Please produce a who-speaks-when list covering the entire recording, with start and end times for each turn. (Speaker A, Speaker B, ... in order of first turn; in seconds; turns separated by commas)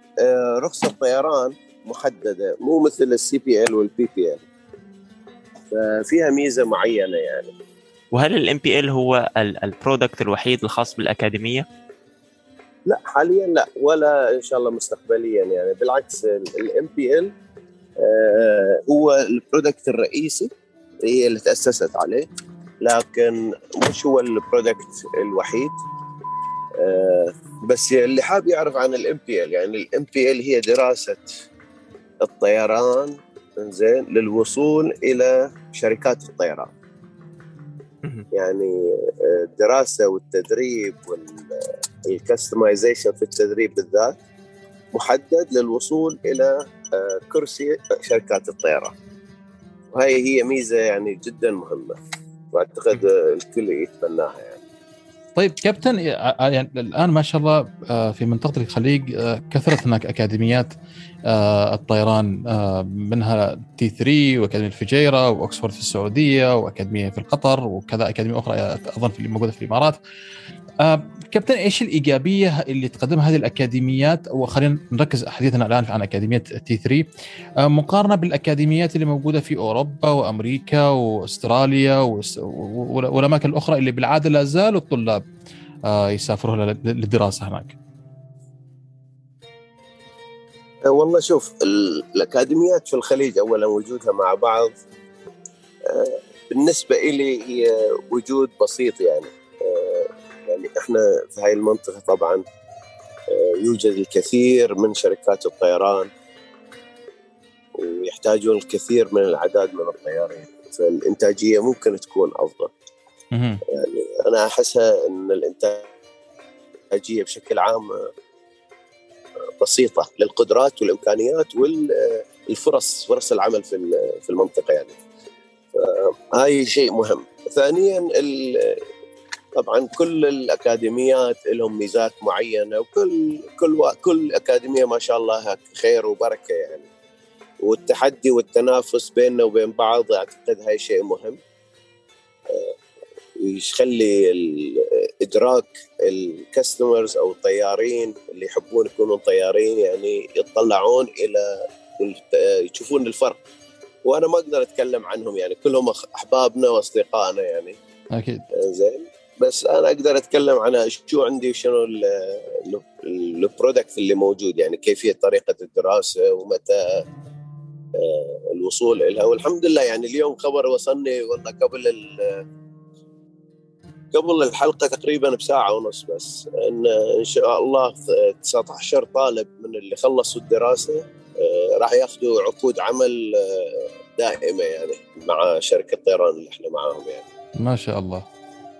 Speaker A: 0.2-4.4, Speaker A: 5.7-7.5, Speaker B: 8.1-11.7, Speaker A: 12.8-17.3, Speaker A: 18.0-20.5, Speaker A: 21.0-22.2, Speaker A: 22.8-25.7, Speaker A: 26.8-31.3, Speaker A: 32.2-36.7, Speaker A: 38.3-44.2, Speaker A: 44.9-48.9, Speaker A: 49.9-52.0, Speaker A: 52.5-54.6, Speaker C: 55.4-60.7, Speaker C: 61.3-70.0, Speaker C: 70.8-77.1, Speaker C: 77.6-85.2, Speaker C: 85.9-87.8, Speaker A: 90.8-94.7, Speaker A: 95.8-102.4, Speaker A: 103.3-106.1, Speaker A: 107.7-112.7, Speaker C: 113.3-113.6, Speaker A: 113.7-115.9, Speaker A: 116.9-118.1, Speaker A: 119.6-124.9, Speaker A: 125.7-128.8, Speaker A: 129.5-136.8, Speaker A: 137.6-141.4, Speaker A: 142.5-142.7, Speaker A: 143.4-153.4, Speaker A: 154.0-157.8, Speaker C: 158.1-158.4, Speaker A: 158.5-167.0, Speaker A: 167.9-172.4, Speaker A: 174.1-187.2, Speaker C: 187.6-188.2